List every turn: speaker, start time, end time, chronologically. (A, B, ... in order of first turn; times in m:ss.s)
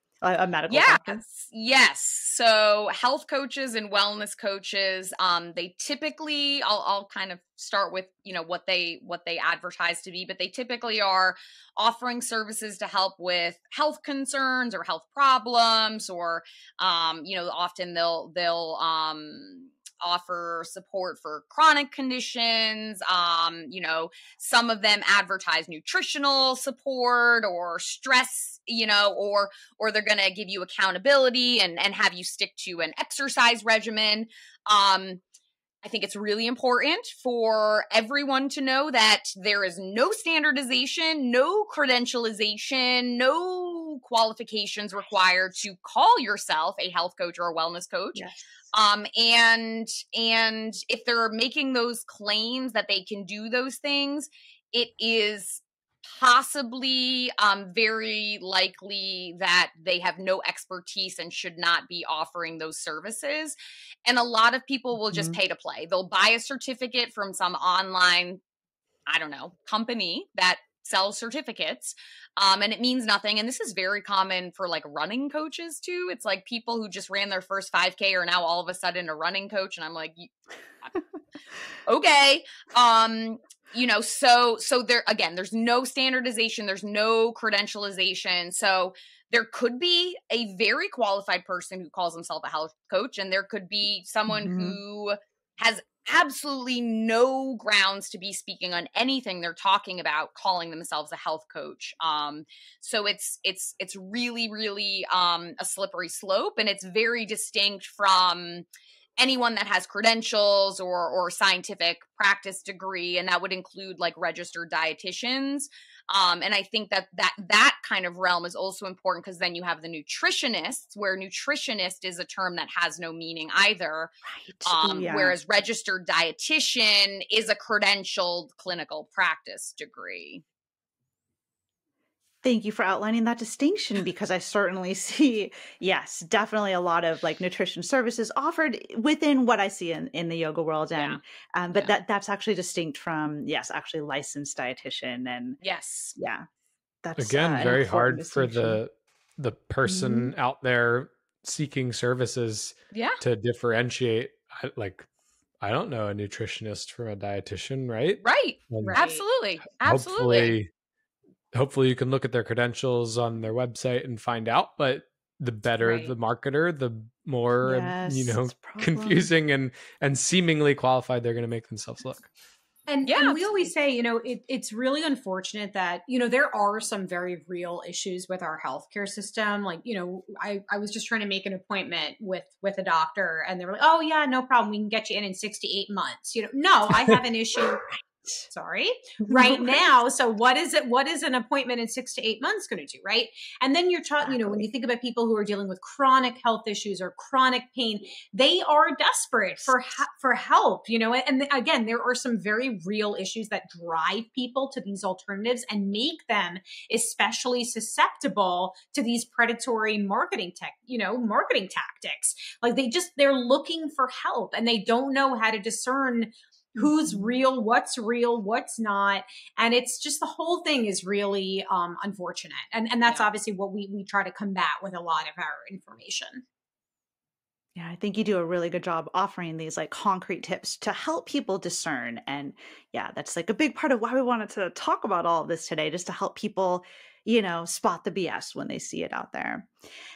0:00.2-0:01.2 A
0:00.7-0:35.2 B
0:35.8-0:48.2 B
0:48.7-1:08.4 B
1:05.1-1:05.4 A
1:09.1-1:20.3 B
1:21.9-1:48.6 B
1:34.3-1:34.8 A
1:49.2-2:04.1 B
2:04.3-2:05.4 A
2:04.6-2:10.4 B
2:12.4-2:25.6 A
2:25.6-2:26.1 B
2:26.2-2:26.4 A
2:27.0-2:28.8 A
2:27.2-2:35.1 C
2:29.8-2:30.3 A
2:32.9-2:33.2 B
2:35.6-2:39.0 C
2:38.2-2:40.6 B
2:38.8-2:39.2 D
2:39.8-2:40.7 C
2:41.5-2:52.3 C
2:45.8-2:46.1 D
2:47.6-2:49.3 A
2:52.9-3:07.9 D
2:53.0-2:53.4 B
3:08.5-3:46.4 D
3:09.2-3:09.8 A
3:14.2-3:14.6 A
3:36.8-3:37.3 A
3:47.8-3:59.7 A